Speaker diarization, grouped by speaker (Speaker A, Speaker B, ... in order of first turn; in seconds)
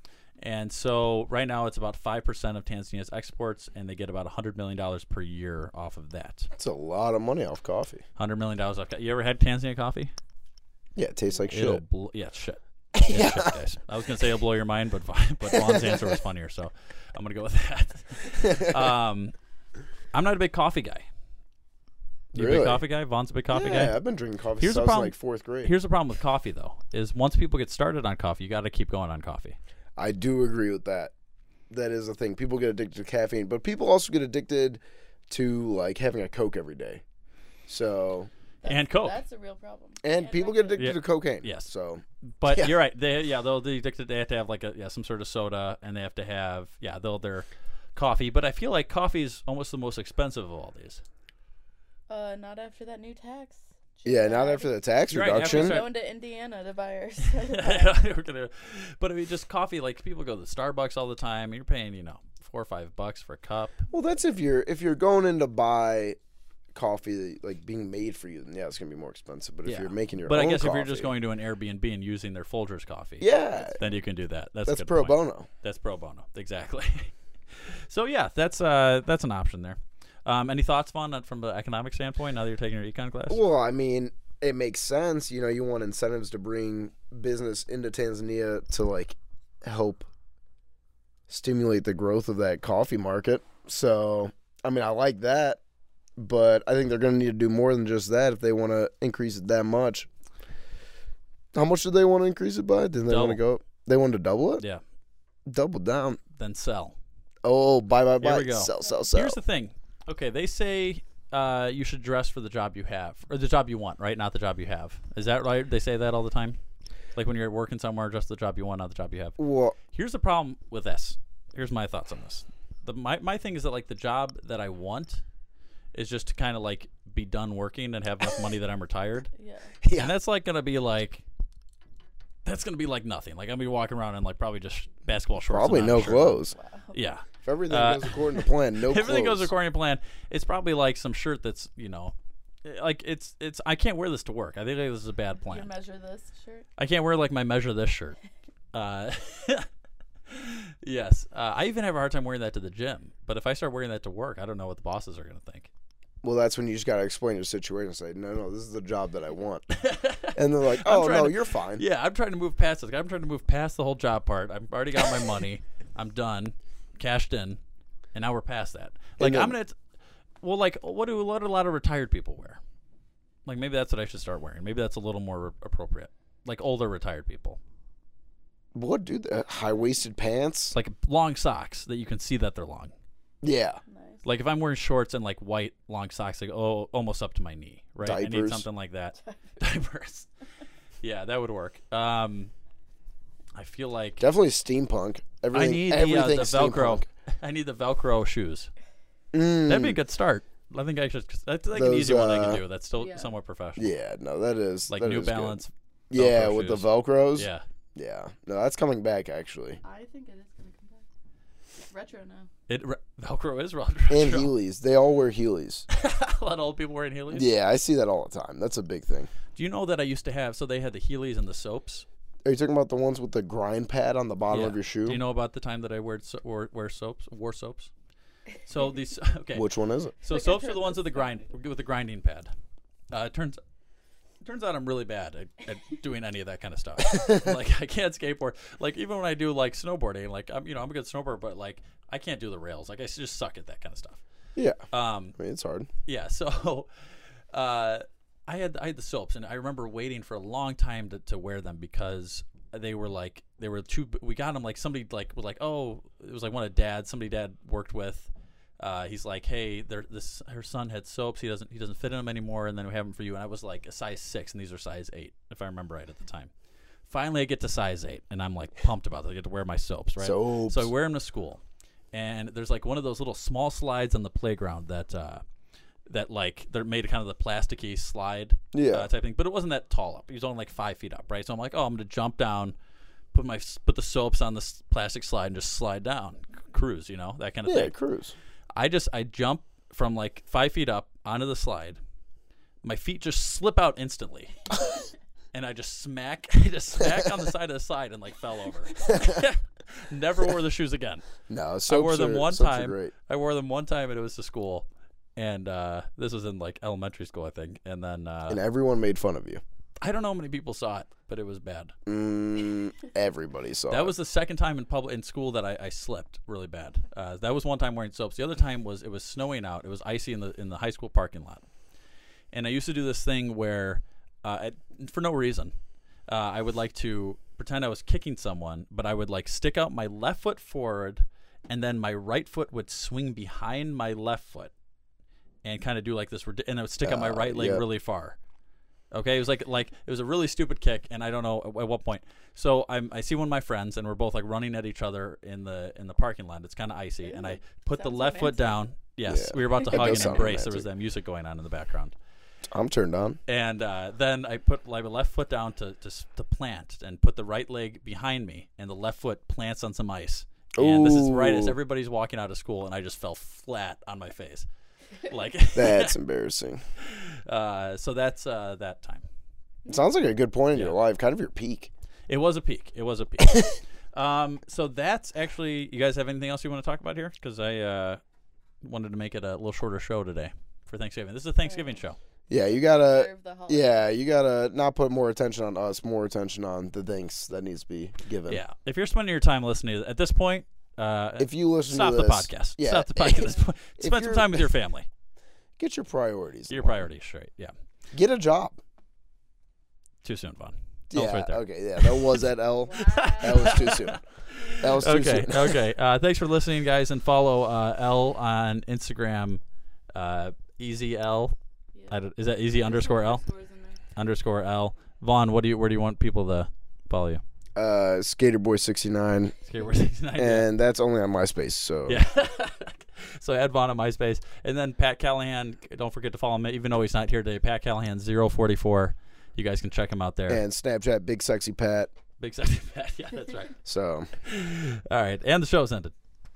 Speaker A: 0.4-6.5, 8.2-10.1, 11.5-19.3, 20.1-21.1, 22.3-24.0, 24.6-29.6, 38.6-39.2, 40.8-41.7, 42.2-51.0, 55.1-55.9, 57.2-63.8, 69.6-83.4, 103.1-103.4, 106.4-107.0, 108.2-116.6, 117.2-119.4, 119.9-125.2, 125.9-129.3, 129.9-131.2, 132.4-136.4, 136.9-145.7, 146.8-148.2, 148.7-149.7, 150.3-155.7, 159.7-167.6, 168.1-169.8, 170.4-172.6, 173.4-177.6, 180.7-182.9, 184.2-190.3, 191.0-192.5, 193.6-194.2, 195.5-198.7, 199.7-203.9, 204.9-207.6, 212.7-214.5, 215.9-217.5, 219.5-222.1, 224.5-227.9, 228.7-229.7, 230.2-232.5, 233.1-233.6, 234.4-244.2, 244.9-245.4, 246.1-246.9, 247.5-266.5, 267.1-271.6, 272.1-275.4, 276.1-282.8, 283.3-287.9, 288.8-292.0, 292.8-294.6, 295.5-301.3, 301.9-308.6, 310.0-311.9, 313.9-321.6, 322.5-325.7, 326.3-334.7, 335.6-338.4, 339.1-352.1, 353.5-364.7, 365.2-366.1, 367.0-369.2, 372.3-378.2, 378.8-382.2, 388.5-395.1, 396.7-397.7, 400.2-402.4, 403.1-409.6, 410.1-411.5, 412.1-413.4, 414.1-417.4, 419.7-420.6, 422.1-430.6, 432.4-433.8, 434.4-436.1
Speaker B: 6.6-8.0, 10.9-11.8, 12.9-13.6, 15.5-16.2, 18.4-18.9, 22.3-22.8, 23.5-25.7, 29.9-31.1, 31.7-37.0, 37.7-38.3, 40.0-42.8, 54.0-55.8, 63.9-66.2, 66.7-71.1, 73.2-73.9, 74.7-75.5, 83.3-90.1, 91.3-95.6, 96.2-100.1, 101.5-104.6, 105.5-106.2, 107.4-109.4, 119.4-119.8, 129.8-130.1, 135.5-136.6, 137.4-139.5, 156.2-159.6, 160.3-161.8, 169.2-169.6, 178.7-180.8, 183.4-183.8, 188.0-188.6, 194.2-197.1, 199.3-200.0, 201.7-202.6, 203.8-205.6, 206.1-209.8, 214.1-215.9, 217.3-219.3, 222.4-225.2, 229.5-230.2, 237.1-237.5, 244.6-244.8, 245.4-245.9, 270.2-270.9, 278.7-279.1, 287.6-288.4, 299.1-299.4, 301.5-303.1, 308.5-309.6, 312.1-314.1, 337.0-337.8, 349.2-350.9, 352.7-353.4, 360.8-361.8, 365.7-366.8, 369.9-371.9, 382.5-388.6, 391.4-394.7, 395.8-397.1, 398.1-398.8, 401.1-404.2, 404.7-405.8, 417.8-419.5, 420.4-422.2, 430.5-432.1, 433.9-434.3
Speaker C: 38.6-40.9, 52.1-54.8, 55.4-58.0, 129.4-129.7, 136.5-136.9, 145.4-146.7, 183.9-184.2, 189.2-189.6, 203.0-203.3, 209.8-211.1, 211.9-212.5, 230.3-231.4, 347.2-348.8, 349.8-350.3, 381.6-382.0, 382.5-384.1, 402.9-403.9, 412.8-414.0